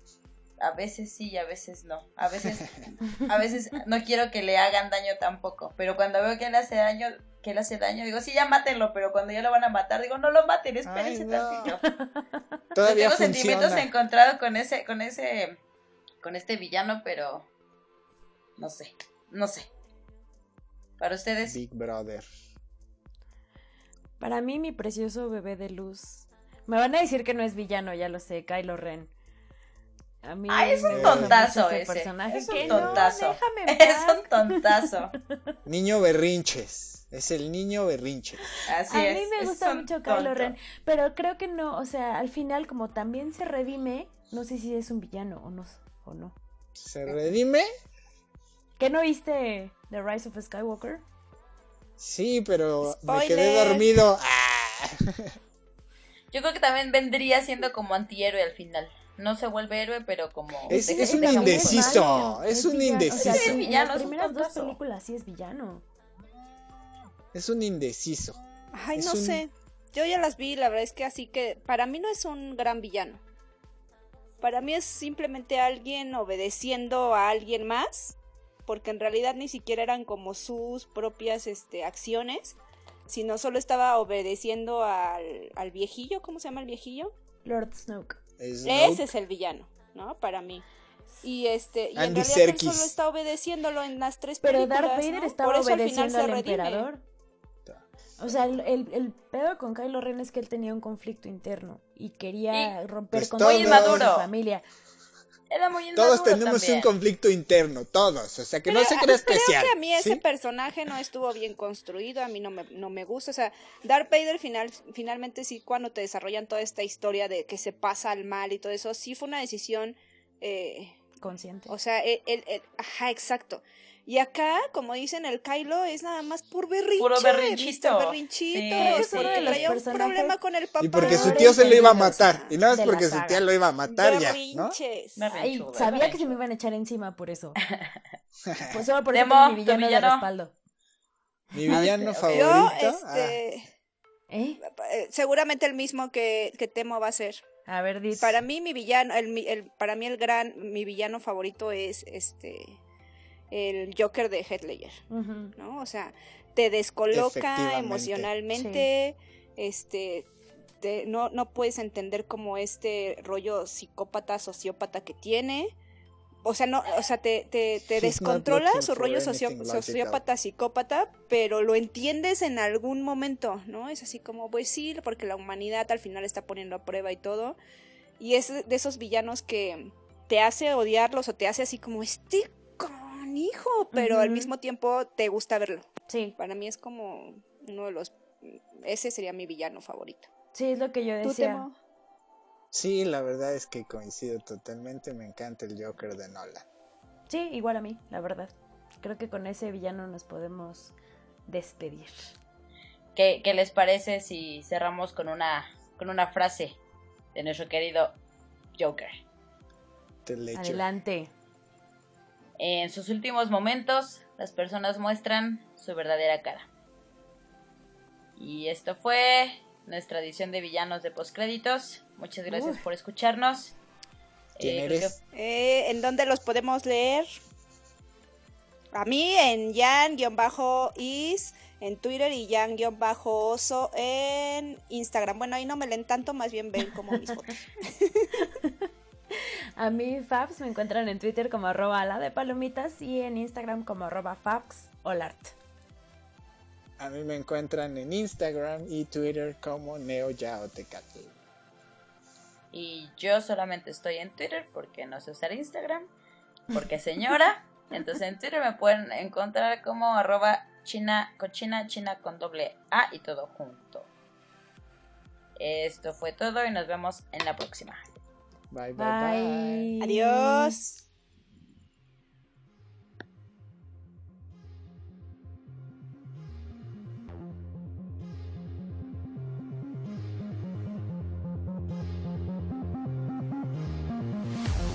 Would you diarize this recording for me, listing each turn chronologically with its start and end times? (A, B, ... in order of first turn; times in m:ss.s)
0:00.6-0:11.8 A
0:10.8-0:11.8 B
0:11.9-0:12.2 C
0:12.7-0:13.9 B
0:12.8-0:15.6 A
0:16.2-0:17.4 A
0:18.6-0:19.7 A
0:21.0-0:21.6 A
0:21.4-0:22.3 B
0:24.2-0:29.1 C
0:30.2-0:35.5 C
0:30.5-0:35.1 A
0:30.9-0:31.5 B
0:32.6-0:33.1 B
0:35.6-0:38.5 B
0:38.6-0:40.5 A
0:38.9-0:46.3 C
0:46.8-0:47.7 B
0:48.8-0:51.0 C
0:52.0-0:55.3 B
0:52.8-0:54.0 D
0:56.3-1:02.3 A
1:00.7-1:03.6 B
1:00.7-1:05.8 C
1:03.1-1:04.8 A
1:07.3-1:08.4 B
1:08.7-1:13.2 D
1:08.9-1:09.4 B
1:14.4-1:27.1 D
1:27.4-1:28.2 C
1:28.4-1:29.1 B
1:28.6-1:30.6 D
1:31.2-1:36.9 D
1:31.9-1:32.9 B
1:34.4-1:37.0 C
1:37.6-1:38.5 B
1:38.2-1:44.6 C
1:43.1-1:44.1 B
1:43.4-1:44.3 A
1:45.5-1:46.9 A
1:45.9-1:50.2 B
1:48.7-2:01.0 D
2:01.2-2:01.7 C
2:01.7-2:12.5 D
2:07.0-2:09.8 A
2:08.7-2:10.4 C
2:10.8-2:14.8 B
2:11.0-2:13.5 C
2:13.9-2:15.3 D
2:15.2-2:16.3 A
2:15.3-2:17.6 C
2:17.6-2:18.0 A
2:18.4-2:18.8 B
2:18.7-2:20.5 C
2:19.1-2:20.3 A
2:21.5-2:23.4 B
2:21.7-2:22.7 A
2:22.3-2:23.7 D
2:24.3-2:24.6 C
2:24.6-2:27.4 D
2:27.7-2:28.3 C
2:28.2-2:32.8 D
2:33.5-2:35.0 D
2:35.1-2:35.5 C
2:35.6-2:40.3 D
2:37.1-2:38.3 B
2:38.6-2:38.9 C
2:40.8-2:45.7 D
2:46.4-2:57.6 D
2:48.0-2:50.2 B
2:58.2-3:10.3 D
3:03.9-3:04.5 C
3:06.1-3:06.4 C
3:10.5-3:11.6 C
3:11.2-3:11.8 D
3:12.7-3:16.6 B
3:17.3-3:20.9 C
3:21.5-3:22.3 C
3:23.2-3:26.8 A
3:27.3-3:28.1 A
3:28.8-3:29.2 A
3:30.2-3:30.9 B
3:30.5-3:31.3 C
3:32.6-3:36.7 A
3:38.4-3:43.7 A
3:42.5-3:42.8 C
3:44.6-3:45.2 A
3:44.6-3:45.1 B
3:45.3-3:47.3 D
3:48.9-3:58.3 D
3:58.4-4:05.5 C
4:07.0-4:11.3 B
4:12.7-4:16.1 A
4:16.7-4:24.1 A
4:25.6-4:28.0 A
4:28.7-4:29.9 B
4:29.0-4:30.8 C
4:30.0-4:31.0 D